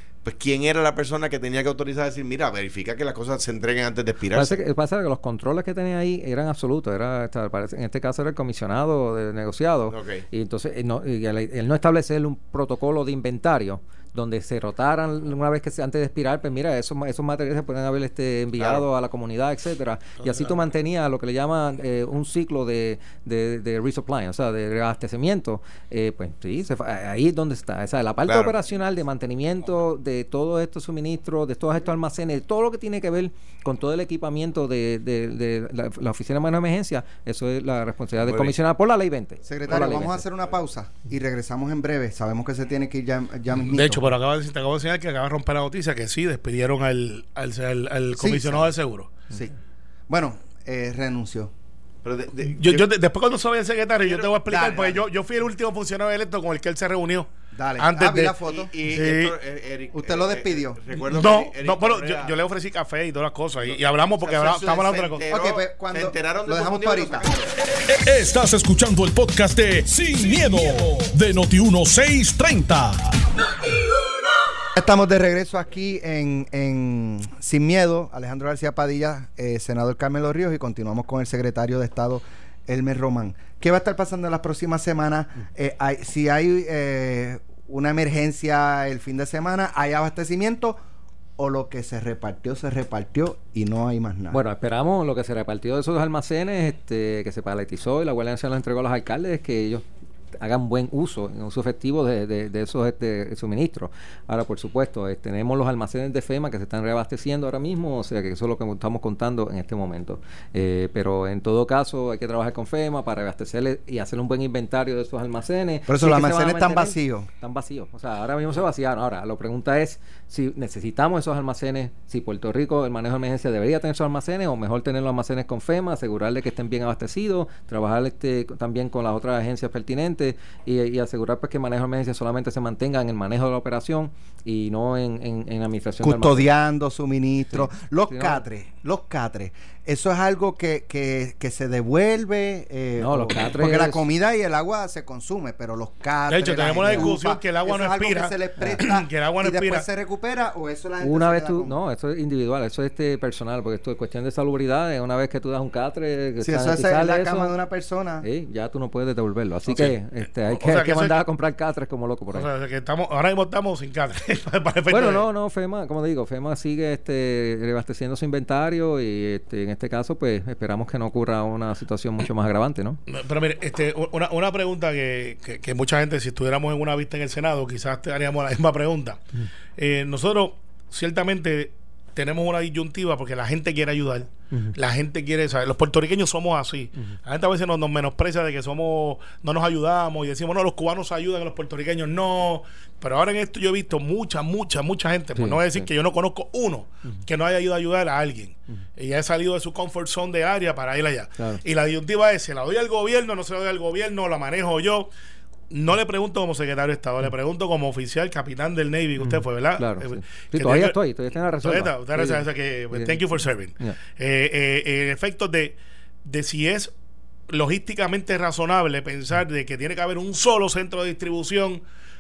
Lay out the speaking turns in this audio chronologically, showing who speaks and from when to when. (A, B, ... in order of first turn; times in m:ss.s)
0:00.2-0:04.6 A
0:04.3-0:40.2 B
0:09.9-0:10.2 A
0:18.6-0:18.8 A
0:28.3-0:28.5 A
0:38.2-0:38.6 A
0:39.4-0:44.0 C
0:43.6-0:49.1 D
0:48.2-0:48.7 C
0:50.1-0:51.5 C
0:52.0-0:52.9 A
0:52.5-0:57.3 D
0:54.0-0:54.4 A
0:54.5-0:55.0 C
0:57.5-0:58.7 C
0:57.8-0:59.4 D
0:58.5-1:02.4 A
0:59.9-1:00.8 C
1:01.0-1:05.2 D
1:03.6-1:07.5 A
1:05.3-1:07.3 C
1:07.9-1:13.1 E
1:14.8-1:30.8 C
1:31.4-1:34.4 C
1:34.3-2:16.5 B
1:55.9-1:57.3 C
2:16.0-2:31.8 C
2:17.5-2:18.4 B
2:23.0-2:24.0 B
2:26.3-2:29.9 D
2:31.0-2:37.5 B
2:36.4-2:38.3 C
2:38.2-2:42.5 B
2:39.7-2:40.0 D
2:40.5-2:41.2 D
2:42.3-2:45.3 D
2:44.9-2:53.0 B
2:53.1-2:59.2 D
2:59.8-3:25.1 D
3:15.4-3:15.9 B
3:25.7-3:31.0 D
3:29.2-3:34.0 B
3:31.6-3:36.9 D
3:37.5-3:41.8 D